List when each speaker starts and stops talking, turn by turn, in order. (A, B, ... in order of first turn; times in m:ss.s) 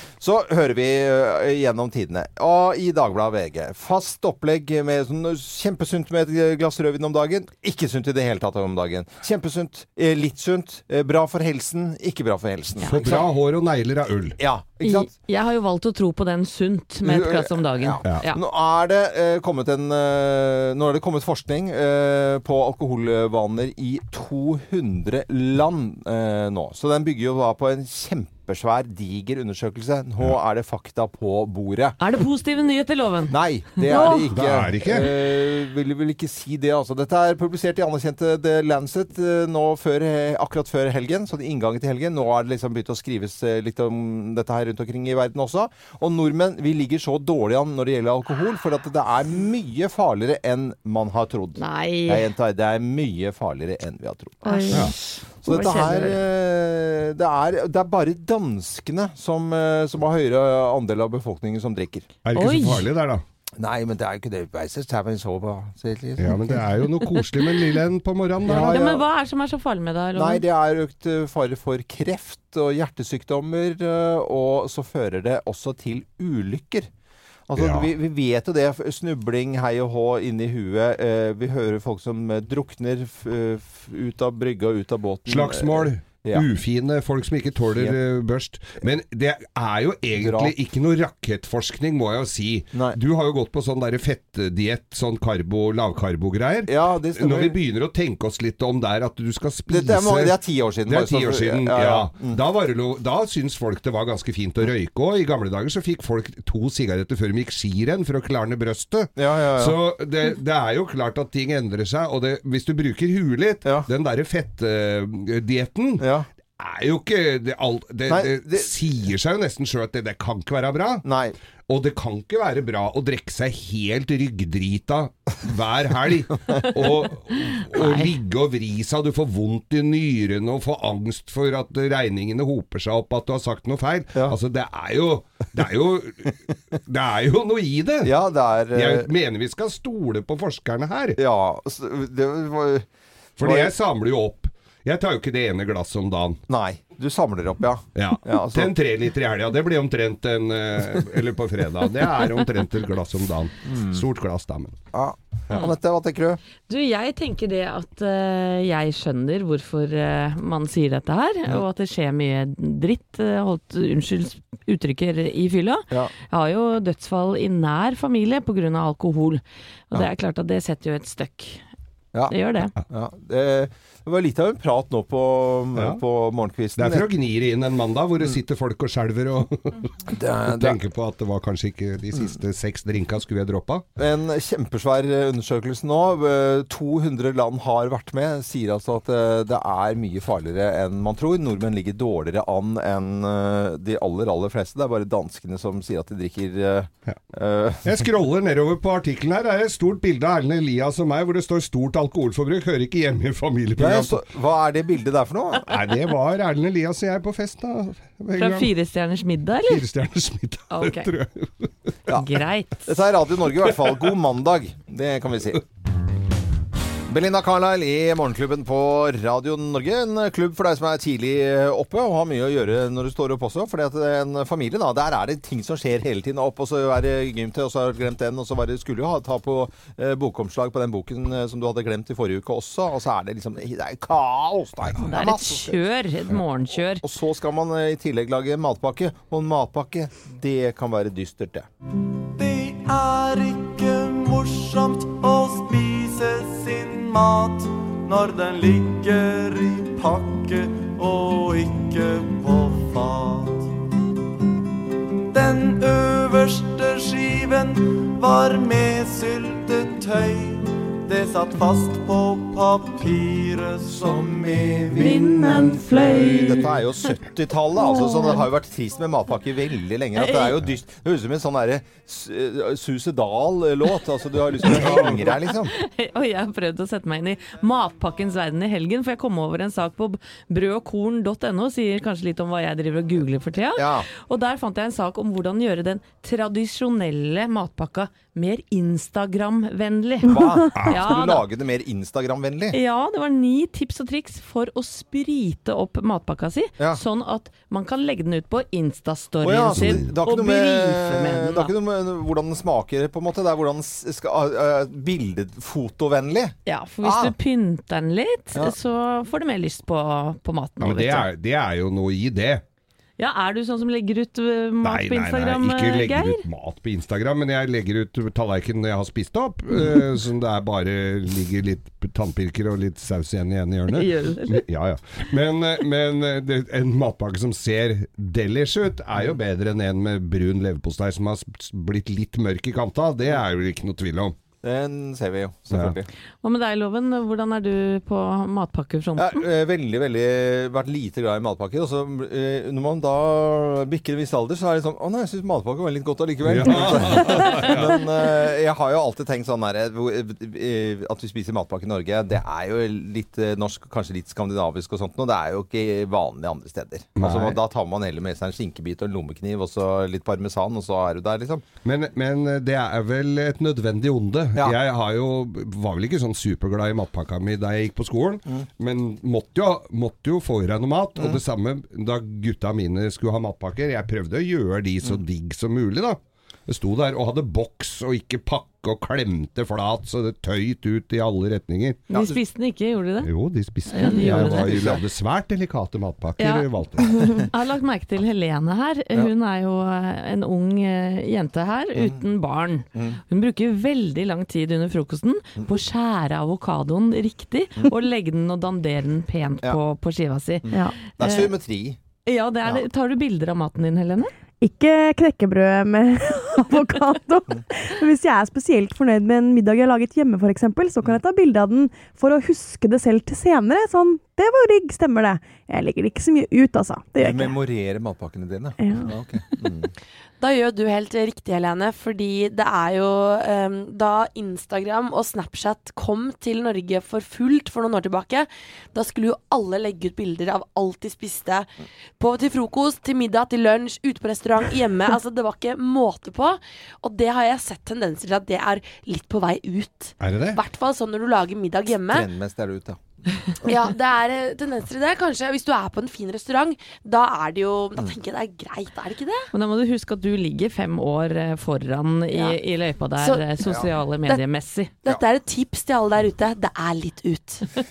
0:00.2-0:13.2 A
0:12.8-0:13.2 B
0:12.8-0:14.4 C
0:14.4-0:15.1 A
0:14.8-0:18.4 B
0:17.0-0:32.0 A
0:32.0-0:34.2 B
0:33.3-0:54.9 A
0:33.9-0:34.2 D
0:34.3-0:35.1 C
0:51.6-0:52.3 B
0:54.4-0:56.2 B
0:54.5-0:54.9 D
0:55.4-1:02.1 A
1:02.2-1:03.2 C
1:02.3-1:02.9 B
1:03.6-1:06.6 A
1:06.2-1:08.8 C
1:07.1-1:07.6 B
1:08.4-1:09.0 A
1:08.5-1:10.4 B
1:10.2-1:16.9 A
1:17.5-1:26.5 A
1:17.6-1:17.9 C
1:25.3-1:56.1 C
1:30.2-1:30.5 A
1:32.7-1:33.0 A
1:36.7-1:37.6 A
1:39.7-1:42.4 A
1:49.2-1:49.8 A
1:56.0-1:56.3 A
1:56.6-2:01.0 C
1:58.1-1:58.8 A
2:01.0-2:01.4 A
2:01.7-2:18.2 C
2:07.7-2:08.1 B
2:18.0-2:19.1 A
2:18.7-2:21.2 C
2:21.2-2:22.9 A
2:23.4-2:26.4 C
2:23.4-2:23.7 A
2:26.5-2:28.7 A
2:28.0-2:34.8 C
2:33.7-2:34.0 A
2:34.9-2:36.4 A
2:36.7-2:51.6 B
2:52.3-2:52.7 B
2:52.9-2:57.1 A
2:55.8-2:56.0 C
2:56.8-3:03.8 C
3:00.1-3:00.8 A
3:04.0-3:18.0 A
3:17.8-3:24.2 C
3:23.8-3:25.7 A
3:25.6-3:28.7 C
3:28.4-3:29.8 B
3:29.7-3:31.9 C
3:30.7-3:31.1 B
3:32.1-3:32.9 B
3:32.8-3:35.6 A
3:37.1-3:55.8 A
3:55.0-3:57.0 B
3:56.9-4:01.7 A
4:02.3-4:13.7 E
4:15.3-4:25.2 E
4:24.0-4:35.7 A
4:25.0-4:26.8 B
4:27.9-4:28.4 B
4:30.2-4:30.6 B
4:34.6-4:35.2 C
4:34.7-4:51.5 B
4:43.8-4:44.1 A
4:50.2-4:52.8 A
4:50.8-4:51.0 C
4:52.7-5:01.7 B
4:59.4-5:07.3 A
4:59.8-5:00.1 C
5:06.7-5:11.3 B
5:10.8-5:12.6 C
5:13.2-5:16.4 B
5:14.8-5:34.4 C
5:23.9-5:24.6 B
5:34.6-5:36.1 A
5:36.4-5:39.4 B
5:39.2-6:01.6 A
5:46.4-5:48.0 C
5:57.2-5:57.6 C
6:01.8-6:22.0 C
6:22.1-6:23.3 B
6:22.1-6:22.4 A
6:23.2-6:27.3 C
6:23.9-6:25.0 B
6:24.2-6:25.0 A
6:26.4-6:41.5 B
6:27.2-6:27.4 A
6:32.0-6:32.2 A
6:33.0-6:33.2 A
6:40.6-6:42.0 A
6:40.7-6:41.0 D
6:42.2-6:44.3 B
6:44.6-6:57.6 D
6:57.2-6:59.9 A
6:58.8-6:59.1 D
7:00.4-7:22.3 F
7:20.2-7:20.6 C
7:22.1-7:23.0 A
7:23.6-7:29.5 F
7:29.5-7:34.9 B
7:32.3-7:32.6 F
7:33.2-7:33.4 F
7:33.6-7:33.9 A
7:35.0-7:37.8 F